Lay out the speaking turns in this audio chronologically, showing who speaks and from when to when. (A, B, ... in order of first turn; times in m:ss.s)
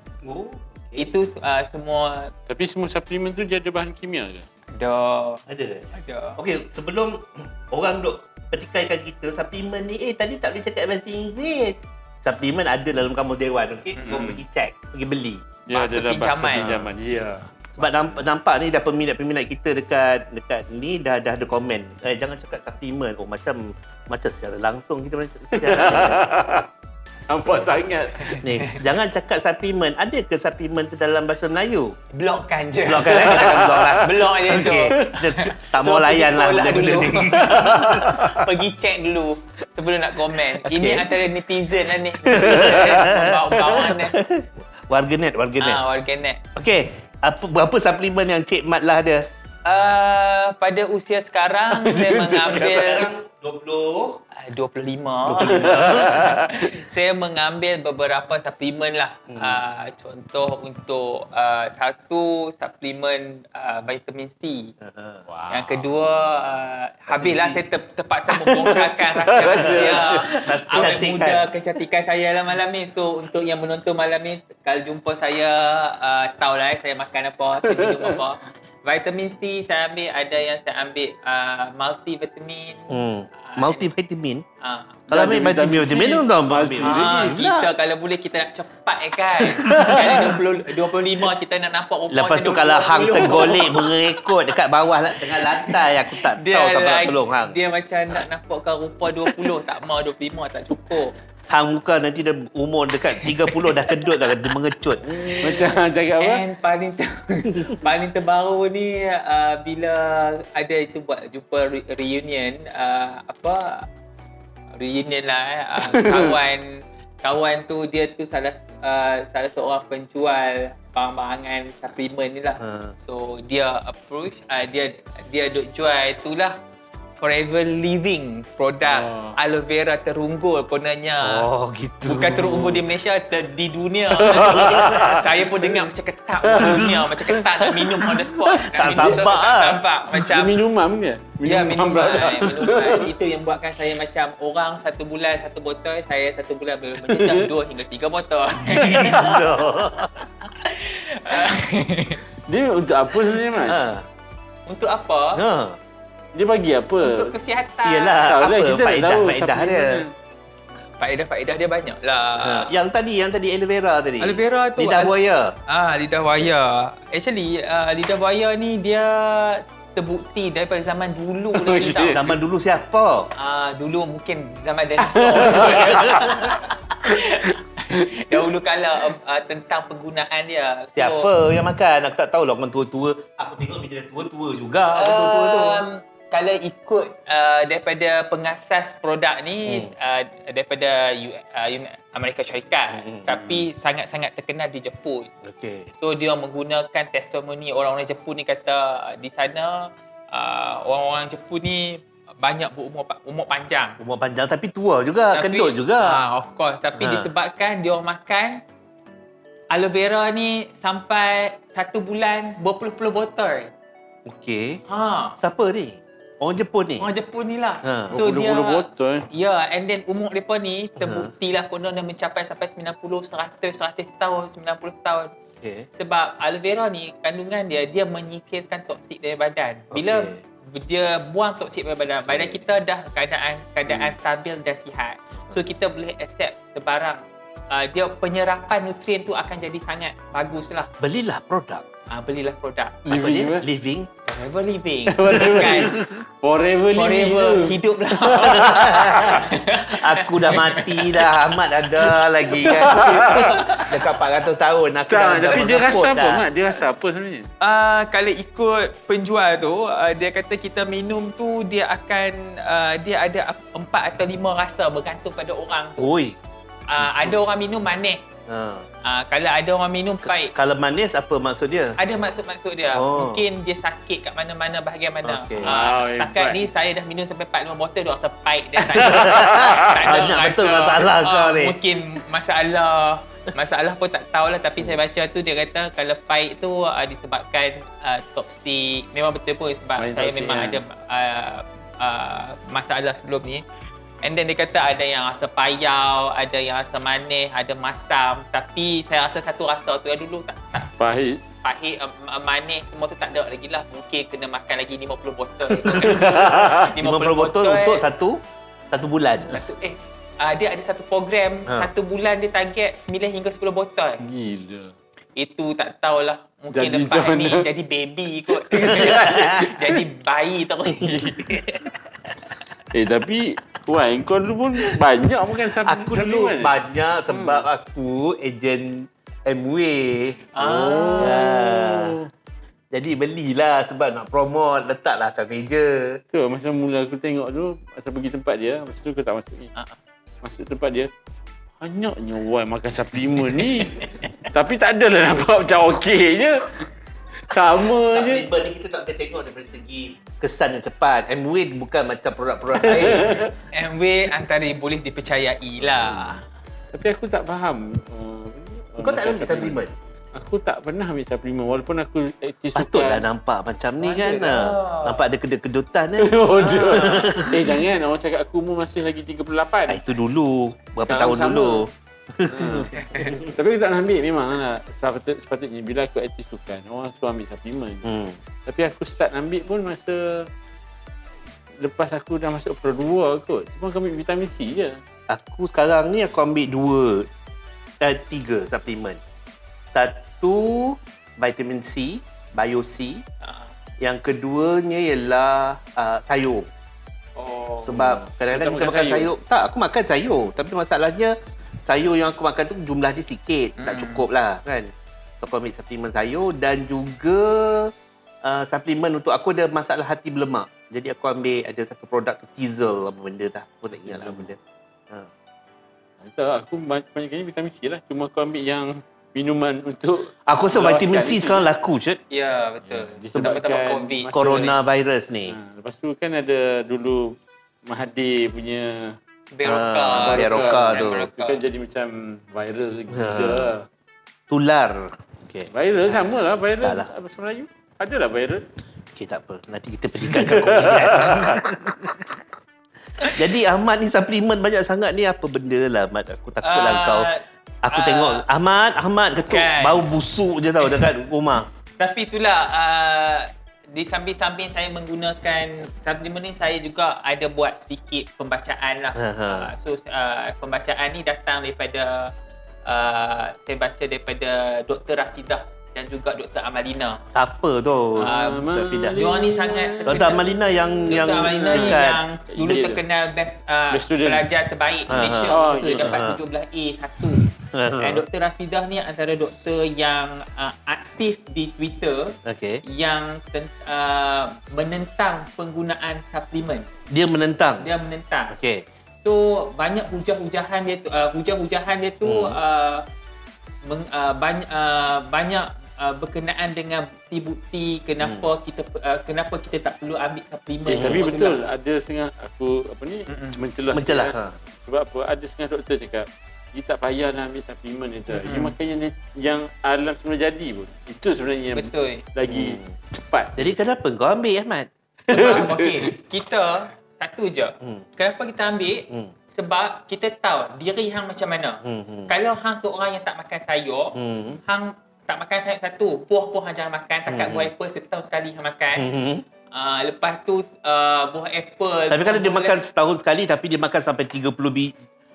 0:00.2-0:01.1 A
0:01.0-0:02.3 B
0:02.5-0:04.5 C
0:04.7-0:06.4 B
0:05.5-0:05.9 A
0:06.4-0:15.5 A
0:14.0-0:14.4 C
0:15.7-0:17.9 C
0:15.7-0:16.7 B
0:16.6-0:16.9 A
0:17.7-0:26.3 A
0:25.5-0:26.7 C
0:27.3-0:28.4 C
0:28.3-0:28.8 B
0:28.4-0:32.0 A
0:32.1-0:44.2 B
0:32.9-0:38.4 A
0:33.1-0:33.9 C
0:34.9-0:35.2 C
0:37.4-0:38.4 C
0:40.6-0:41.2 A
0:42.2-0:45.8 A
0:42.2-0:43.1 C
0:45.6-0:46.4 B
0:46.6-0:49.3 A
0:49.6-0:53.1 B
0:51.7-0:53.0 C
0:52.4-0:54.2 A
0:54.3-1:04.7 B
0:55.3-0:56.2 A
0:55.3-0:56.8 C
0:59.3-0:59.6 A
1:04.8-1:05.2 A
1:05.3-1:06.4 C
1:05.5-1:23.9 B
1:07.1-1:07.6 A
1:08.3-1:11.1 C
1:09.6-1:11.4 A
1:17.6-1:18.2 C
1:22.9-1:24.4 A
1:24.6-1:25.0 B
1:25.1-1:27.4 C
1:25.1-1:27.7 A
1:26.8-1:34.2 B
1:29.6-1:30.3 A
1:29.6-1:30.3 C
1:32.1-1:37.6 A
1:35.3-1:41.1 B
1:41.5-1:45.6 A
1:43.5-1:44.1 B
1:45.1-1:53.9 B
1:45.4-1:46.4 C
1:54.8-2:06.6 B
1:55.8-1:56.4 C
2:02.6-2:03.0 A
2:07.2-2:11.5 B
2:08.8-2:09.4 C
2:11.2-2:12.8 A
2:12.0-2:20.6 B
2:14.1-2:15.9 C
2:14.4-2:15.0 A
2:16.4-2:19.3 C
2:18.5-2:19.8 A
2:20.1-2:23.1 C
2:21.4-2:29.4 B
2:27.0-2:27.5 C
2:28.7-2:29.4 C
2:28.7-2:30.2 A
2:30.4-2:32.2 B
2:32.5-2:33.8 C
2:33.6-2:34.0 A
2:34.7-2:35.4 B
2:35.4-2:35.8 A
2:36.4-2:37.4 C
2:37.0-2:38.2 B
2:37.8-2:40.0 A
2:38.2-2:40.1 C
2:41.0-2:42.8 B
2:42.4-2:45.6 A
2:44.2-2:45.2 B
2:45.7-2:52.2 B
2:51.5-2:52.4 C
2:52.1-2:53.3 A
2:53.4-3:01.3 B
2:55.0-2:56.5 C
2:55.4-2:56.5 A
2:57.1-2:58.4 C
3:01.0-3:05.8 A
3:05.0-3:15.3 B
3:09.7-3:09.9 A
3:12.9-3:13.7 A
3:15.4-3:15.9 A
3:16.0-3:24.0 B
3:24.0-3:26.2 A
3:25.3-3:28.6 B
3:27.0-3:27.3 A
3:29.7-3:33.7 B
3:34.3-3:34.8 A
3:34.9-3:35.4 B
3:35.4-3:37.1 A
3:37.0-3:45.3 B
3:37.8-3:38.2 A
3:38.1-3:39.3 C
3:41.0-3:41.3 A
3:45.6-3:45.9 A
3:46.0-4:00.9 B
3:49.9-3:50.4 A
3:52.3-3:52.6 A
4:01.0-4:01.9 A
4:02.1-4:03.0 B
4:03.0-4:03.7 C
4:03.1-4:04.1 A
4:04.3-4:06.0 B
4:05.1-4:09.5 C
4:05.4-4:06.2 A
4:07.0-4:11.3 B
4:08.4-4:16.5 A
4:12.6-4:13.8 C
4:12.6-4:13.6 B
4:15.1-4:17.5 C
4:17.6-4:26.1 B
4:26.0-4:26.4 A
4:26.9-4:28.2 B
4:28.5-4:28.9 A
4:29.0-4:30.5 B
4:30.4-4:32.0 A
4:32.0-4:53.6 B
4:32.9-4:33.4 A
4:35.2-4:35.7 A
4:35.6-4:36.7 C
4:38.9-4:41.8 A
4:38.9-4:40.3 C
4:50.0-4:50.8 C
4:54.2-5:00.9 B
5:01.0-5:01.4 C
5:01.6-5:08.0 B
5:05.7-5:08.4 A
5:08.9-5:09.6 A
5:09.4-5:14.2 B
5:14.2-5:14.9 C
5:15.4-5:22.0 B
5:16.7-5:17.7 C
5:18.6-5:19.9 C
5:18.8-5:19.7 A
5:22.9-5:26.7 C
5:25.8-5:30.6 A
5:27.3-5:27.7 C
5:30.5-5:31.5 B
5:30.6-5:32.3 C
5:31.2-5:32.2 A
5:32.9-5:36.2 A
5:36.3-5:39.7 C
5:40.4-5:41.1 C
5:41.8-5:46.8 C
5:47.4-5:48.5 C
5:48.1-5:53.5 A
5:52.8-5:53.5 C
5:53.7-5:56.4 B
5:56.9-5:59.8 C
5:59.0-5:59.9 A
6:00.4-6:03.2 C
6:02.8-6:07.7 A
6:04.0-6:05.2 B
6:06.2-6:10.0 C
6:06.6-6:07.3 B
6:09.9-6:13.3 A
6:11.0-6:11.8 C
6:12.5-6:18.0 C
6:13.0-6:13.3 B
6:18.0-6:18.4 A
6:18.7-6:20.5 C
6:21.8-6:25.0 C
6:25.3-6:27.3 A
6:28.0-6:29.2 A
6:29.9-6:33.2 A
6:33.4-6:33.7 B
6:34.0-6:36.7 A
6:37.4-6:38.0 B
6:37.8-6:47.9 A
6:38.0-6:39.3 C
6:43.8-6:44.3 B
6:48.4-6:54.6 A
6:53.9-6:54.5 C
6:56.2-7:01.6 C
7:00.5-7:02.2 A
7:02.3-7:04.6 B
7:02.9-7:04.8 C
7:04.3-7:05.6 A
7:05.5-7:09.2 C
7:09.5-7:11.6 B
7:09.6-7:11.2 A
7:10.1-7:13.9 C
7:13.1-7:13.7 A
7:14.5-7:15.7 A
7:15.7-7:18.6 C
7:16.8-7:17.1 A
7:19.2-7:22.4 A
7:20.2-7:21.6 C
7:23.2-7:27.3 A
7:26.6-7:28.4 B
7:27.8-7:31.7 A
7:29.5-7:30.0 B
7:32.0-7:42.3 B
7:39.2-7:39.7 A
7:42.8-7:47.2 B
7:47.3-7:49.2 A
7:48.2-7:53.0 C
7:48.2-7:50.6 B
7:50.1-7:52.2 A
7:51.1-7:57.4 B
7:53.9-7:54.5 C
7:55.1-7:56.4 A
7:55.4-7:56.3 C
7:57.6-7:58.2 A
7:58.0-8:06.9 B
8:02.4-8:02.8 A
8:07.1-8:07.9 A
8:07.8-8:08.5 B
8:08.5-8:08.8 A
8:09.2-8:13.0 B
8:12.2-8:12.6 A
8:13.8-8:21.6 B
8:18.2-8:18.5 A
8:20.9-8:21.2 A
8:20.9-8:33.6 C
8:23.3-8:23.6 B
8:23.9-8:24.6 A
8:28.3-8:28.8 B
8:31.7-8:32.2 B
8:32.5-8:33.0 A
8:33.6-8:34.9 A
8:35.3-8:36.1 C
8:35.3-8:44.2 B
8:41.8-8:42.3 A
8:44.2-8:44.6 A
8:44.7-8:49.1 B
8:47.3-8:47.7 A
8:49.0-8:49.4 A
8:49.7-8:52.8 B
8:52.1-8:55.0 A